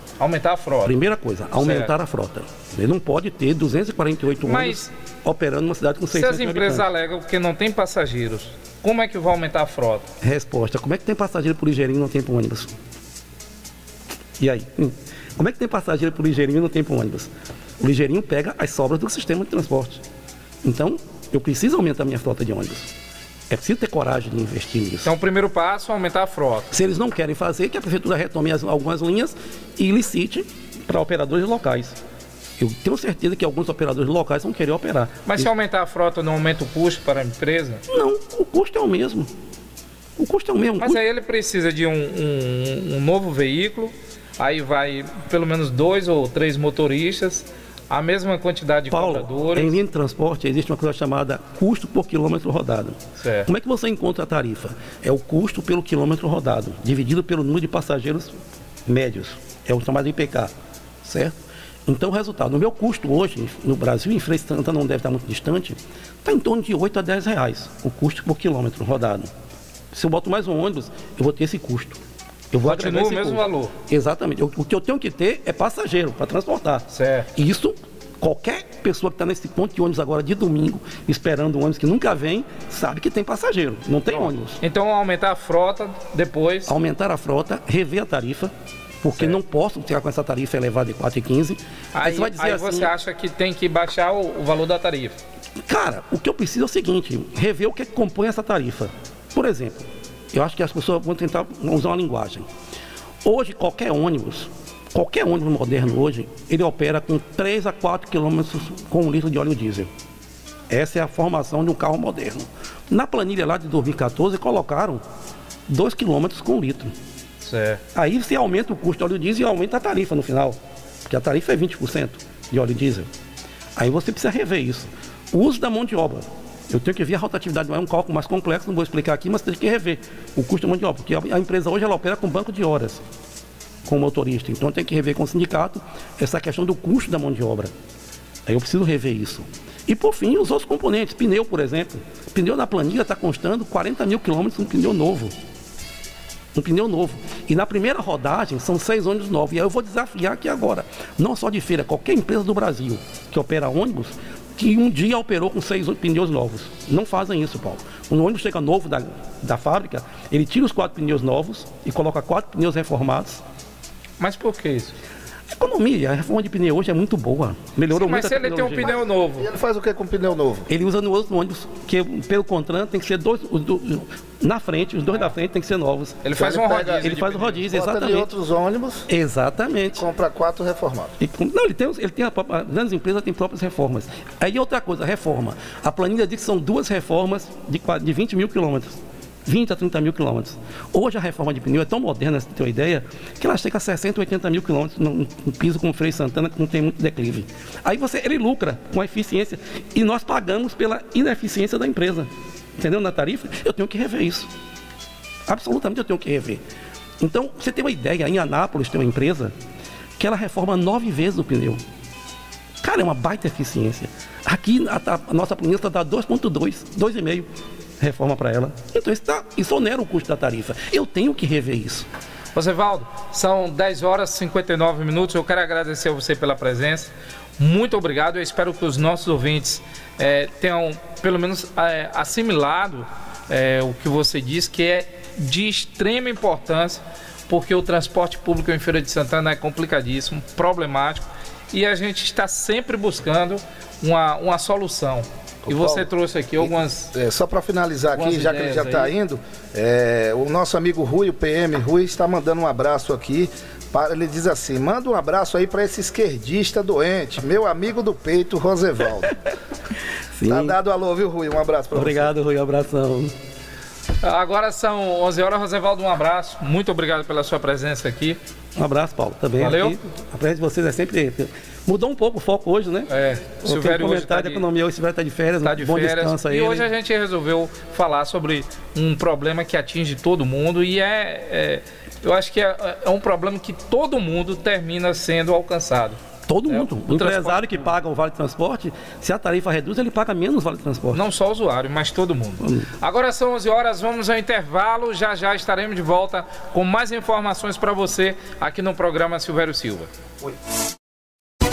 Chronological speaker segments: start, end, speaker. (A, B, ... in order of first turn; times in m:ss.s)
0:00.2-0:01.0 A
0:00.8-0:06.9 B
0:01.5-0:01.9 A
0:04.4-0:04.9 A
0:06.1-0:10.1 A
0:10.2-0:12.7 B
0:14.4-0:20.0 B
0:20.6-0:22.9 B
0:23.5-0:25.1 B
0:25.0-0:26.7 A
0:26.7-0:32.0 B
0:32.6-0:35.5 B
0:35.3-0:37.8 A
0:37.9-0:39.3 B
0:40.2-0:41.0 B
0:40.8-0:49.8 A
0:48.9-1:00.5 B
0:53.2-0:53.5 A
1:01.0-1:09.3 B
1:09.9-1:12.0 B
1:12.5-1:24.6 B
1:12.6-1:13.7 A
1:16.9-1:17.3 A
1:24.1-1:26.7 A
1:26.7-1:32.9 B
1:31.9-1:35.2 A
1:35.7-1:42.5 B
1:43.2-1:49.9 B
1:50.7-1:55.0 B
1:55.7-1:56.9 B
1:57.4-1:57.8 A
1:57.9-2:03.1 B
2:03.8-2:13.0 B
2:13.8-2:17.7 B
2:18.5-2:25.3 B
2:26.6-2:43.4 B
2:44.2-2:45.0 A
2:45.5-2:49.0 B
2:47.9-2:49.5 A
2:48.9-2:50.7 C
2:50.7-2:56.2 B
2:56.2-2:57.7 A
2:56.4-2:57.1 C
2:57.0-2:58.3 B
2:57.6-2:59.1 C
2:59.1-3:00.0 B
2:59.9-3:01.1 C
3:01.2-3:24.5 B
3:25.5-3:26.6 B
3:27.2-3:29.5 B
3:30.2-3:31.8 B
3:32.8-3:37.5 B
3:38.0-3:42.1 B
3:42.6-4:07.2 A
4:05.7-4:06.1 C
4:06.6-4:19.4 C
4:08.1-4:09.2 A
4:19.2-4:19.5 B
4:20.4-4:20.8 B
4:20.5-4:22.3 C
4:21.9-4:23.3 B
4:24.2-4:28.4 A
4:28.8-4:33.1 B
4:29.6-4:30.0 A
4:33.1-4:34.6 A
4:33.6-4:36.9 B
4:35.6-4:47.9 A
4:46.5-4:51.2 B
4:51.1-5:00.1 A